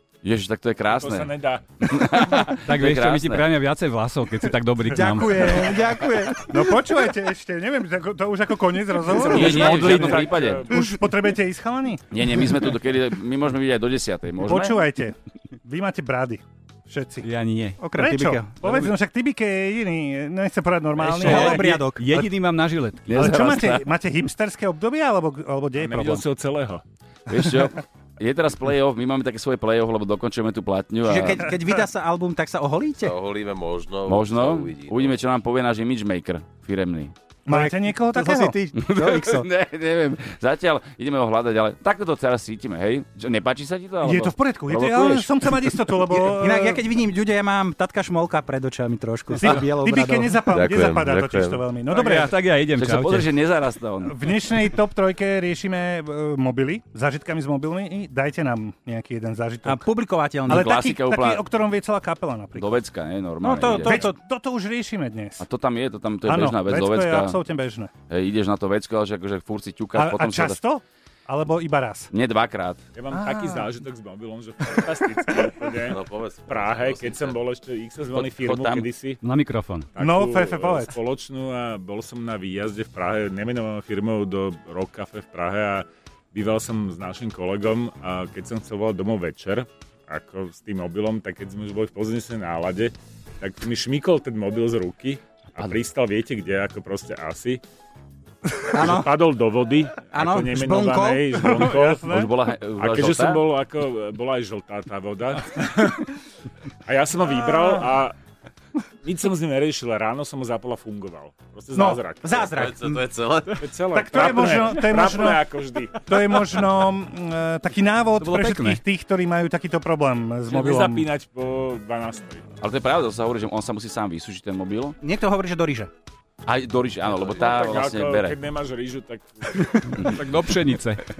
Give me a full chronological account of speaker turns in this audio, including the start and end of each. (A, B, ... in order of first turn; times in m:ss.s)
0:00.2-0:03.5 A
0:00.9-0:02.4 B
0:02.5-0:05.8 C
0:04.9-0:06.8 D
0:06.3-0:12.0 E
0:09.1-0:10.7 A
0:09.4-0:10.9 B
0:12.1-0:14.7 A
0:14.4-0:17.3 E
0:17.2-0:18.7 C
0:17.8-0:18.6 D
0:17.9-0:22.3 E
0:21.0-0:22.1 D
0:21.1-0:23.3 C
0:23.1-0:23.9 A
0:23.1-0:26.3 E
0:25.8-0:26.8 B
0:27.3-0:31.5 A
0:31.0-0:33.1 D
0:33.0-0:35.2 F
0:34.1-0:37.1 A
0:37.5-0:38.5 E
0:37.5-0:39.5 D
0:38.8-0:45.8 A
0:44.0-0:46.8 E
0:46.1-0:50.4 D
0:49.3-0:52.4 E
0:50.5-0:51.6 F
0:51.9-0:53.3 C
0:52.7-0:54.1 A
0:54.0-0:59.8 E
0:59.6-1:00.7 D
1:00.5-1:02.7 E
1:00.5-1:01.4 A
1:02.5-1:04.1 A
1:03.4-1:04.2 D
1:03.7-1:05.4 E
1:05.4-1:07.4 A
1:06.2-1:07.9 E
1:08.1-1:10.6 A
1:09.9-1:12.1 E
1:12.1-1:12.8 A
1:12.9-1:19.2 B
1:13.1-1:13.7 E
1:14.7-1:15.7 E
1:15.9-1:17.4 F
1:18.1-1:18.9 A
1:19.2-1:19.9 C
1:19.9-1:37.6 B
1:20.0-1:21.0 E
1:38.7-1:39.2 D
1:38.8-1:42.0 B
1:40.1-1:41.4 D
1:41.3-1:42.3 E
1:42.1-1:43.5 A
1:42.8-1:46.2 B
1:46.8-1:48.2 B
1:47.3-1:47.9 E
1:49.0-1:52.6 B
1:51.7-1:53.0 D
1:52.3-1:53.7 F
1:53.6-1:56.0 B
1:53.9-1:55.4 E
1:55.9-2:01.1 E
1:58.2-1:58.8 C
2:00.5-2:02.4 B
2:02.6-2:05.0 A
2:05.0-2:05.9 D
2:06.4-2:08.4 A
2:07.3-2:09.9 B
2:09.9-2:10.2 A
2:09.9-2:11.0 C